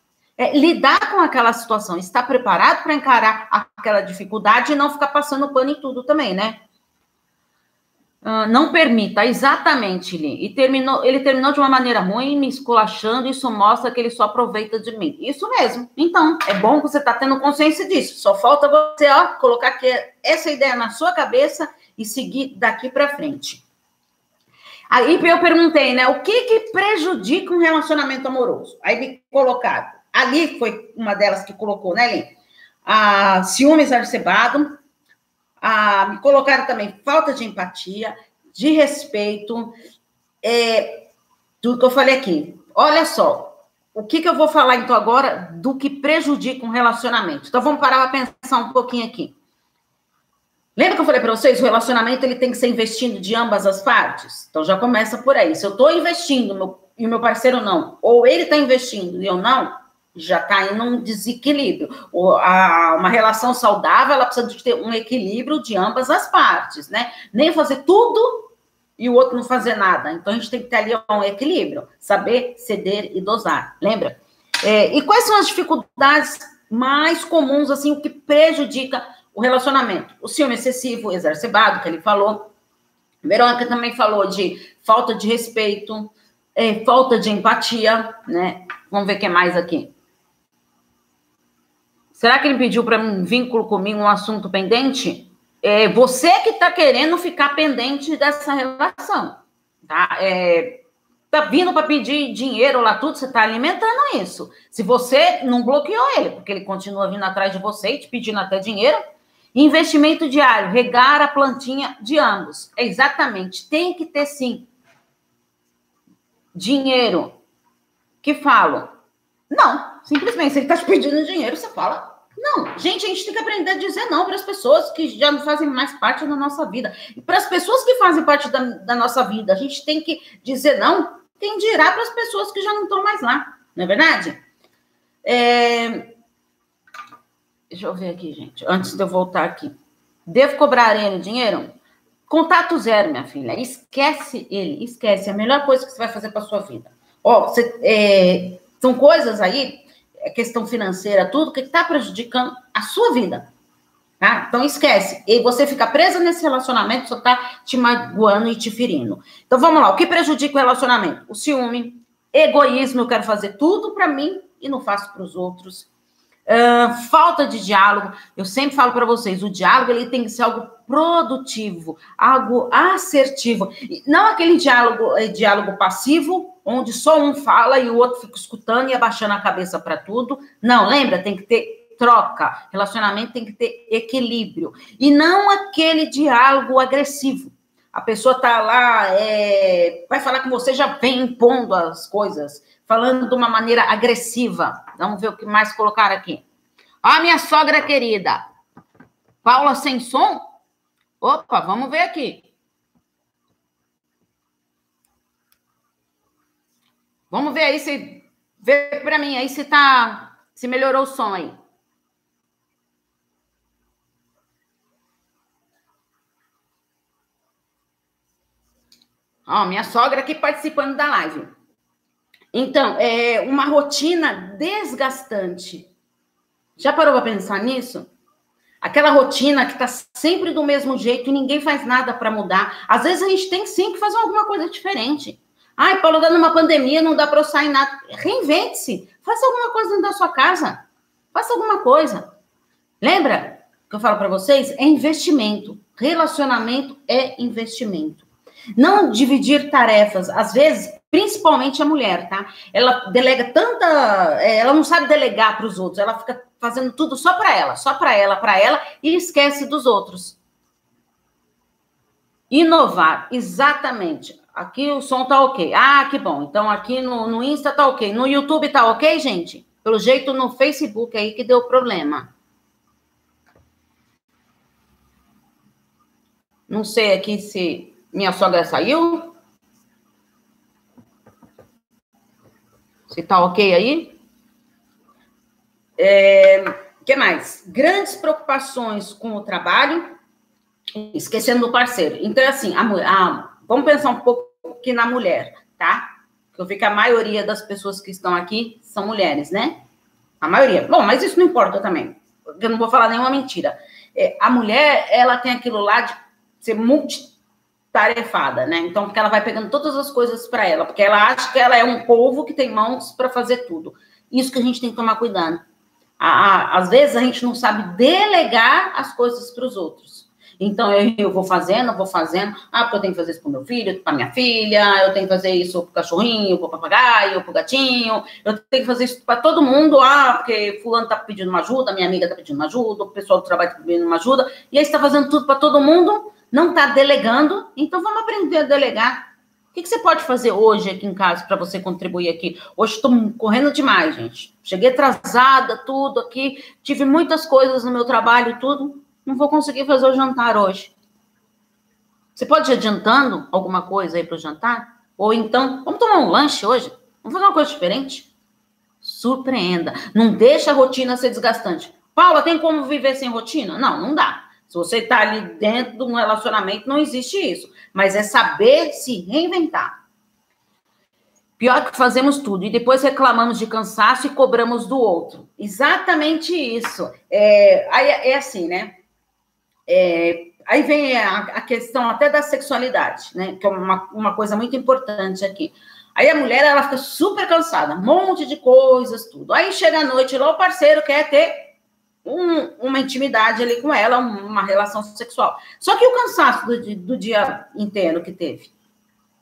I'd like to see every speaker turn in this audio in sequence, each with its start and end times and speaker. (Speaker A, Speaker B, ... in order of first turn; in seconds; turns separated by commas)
Speaker A: 0.4-6.6, Speaker A: 8.2-23.6, Speaker A: 24.9-32.3, Speaker A: 32.9-34.8, Speaker A: 35.6-39.7, Speaker A: 40.4-41.1, Speaker A: 41.6-49.3, Speaker A: 50.8-82.5, Speaker A: 83.2-89.9, Speaker A: 92.1-100.8, Speaker A: 101.3-109.0, Speaker A: 109.5-114.7, Speaker A: 116.5-117.3, Speaker A: 118.2-118.9, Speaker A: 119.5-134.4, Speaker A: 135.2-136.1, Speaker A: 137.7-139.7, Speaker A: 140.3-141.7, Speaker A: 142.3-153.5, Speaker A: 154.2-165.9, Speaker A: 166.5-196.4, Speaker A: 197.0-198.4, Speaker A: 199.4-200.4, Speaker A: 201.2-202.4, Speaker A: 207.3-211.6, Speaker A: 219.5-221.5, Speaker A: 222.5-225.9, Speaker A: 226.8-228.1, Speaker A: 228.8-240.8, Speaker A: 241.3-242.3, Speaker A: 243.0-248.3, Speaker A: 248.8-260.4, Speaker A: 262.5-272.3, Speaker A: 276.7-279.3, Speaker A: 283.1-284.2, Speaker A: 286.0-290.1, Speaker A: 290.9-299.8, Speaker A: 300.4-307.3, Speaker A: 307.9-315.6, Speaker A: 316.2-339.2, Speaker A: 339.7-350.9, Speaker A: 352.4-358.3, Speaker A: 359.0-369.9, Speaker A: 371.6-379.0, Speaker A: 379.9-391.6, Speaker A: 392.2-398.7